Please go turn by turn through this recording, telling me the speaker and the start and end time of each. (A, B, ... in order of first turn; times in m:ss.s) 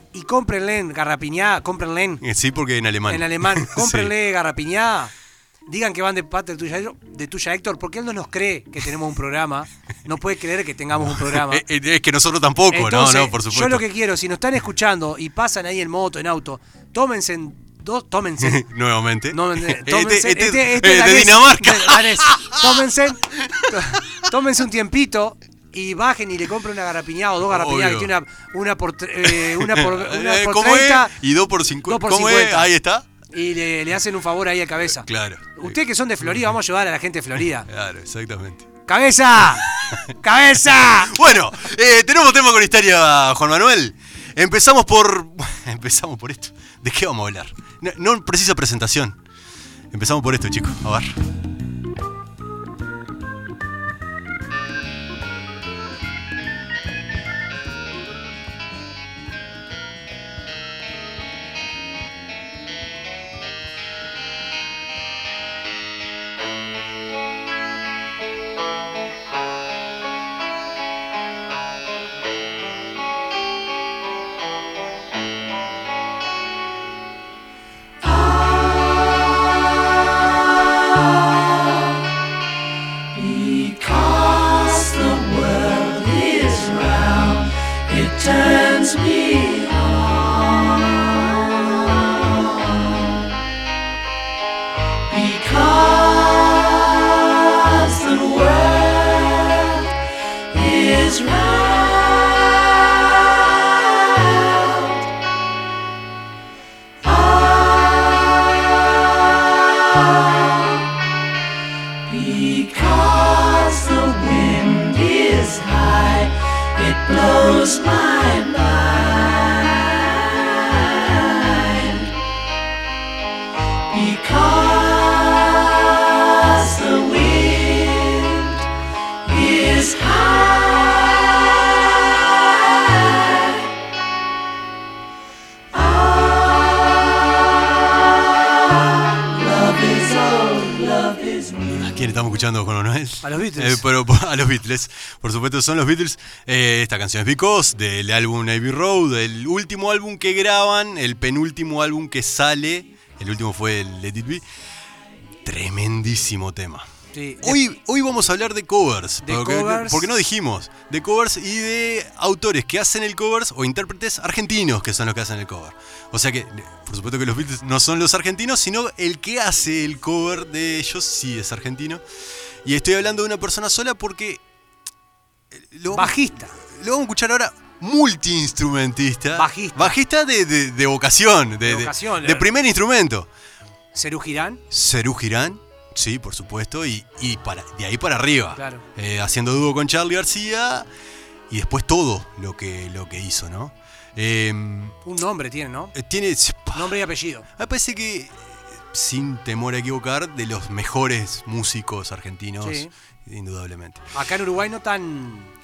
0:00.1-0:02.2 A
0:02.2-0:04.1 B
0:03.1-0:05.1 A
0:05.6-0:11.6 A
0:11.0-0:13.8 B
0:12.7-0:18.6 A
0:18.4-0:23.7 B
0:19.3-0:31.1 A
0:27.4-0:28.1 B
0:29.2-0:33.1 B
0:31.8-0:32.7 A
0:33.3-0:37.7 A
0:35.0-0:36.5 B
0:37.7-0:38.7 B
0:38.9-0:41.2 A
0:40.8-0:49.2 B
0:49.9-0:51.2 B
1:18.0-1:19.0 C
1:23.1-1:31.6 C
1:35.1-1:39.8 C
1:40.5-1:42.6 C
1:47.0-1:48.1 C
1:52.1-1:59.8 C
2:03.9-2:08.4 C
2:09.3-2:11.1 C
2:15.8-2:16.5 C
2:19.2-2:21.8 C
2:21.8-2:34.4 B
2:23.2-2:23.8 A
2:35.4-2:36.9 B
2:37.1-2:37.6 A
2:37.4-2:52.0 B
2:39.2-2:40.1 A
2:52.6-2:54.4 B
2:55.5-3:03.3 B
2:55.9-2:56.6 A
2:59.3-3:00.0 A
3:01.6-3:02.5 A
3:03.9-3:04.6 A
3:04.7-3:10.9 B
3:08.6-3:08.8 A
3:11.5-3:15.0 B
3:15.0-3:15.9 A
3:15.9-3:24.0 B
3:16.7-3:17.4 A
3:22.6-3:22.9 A
3:24.1-3:25.5 A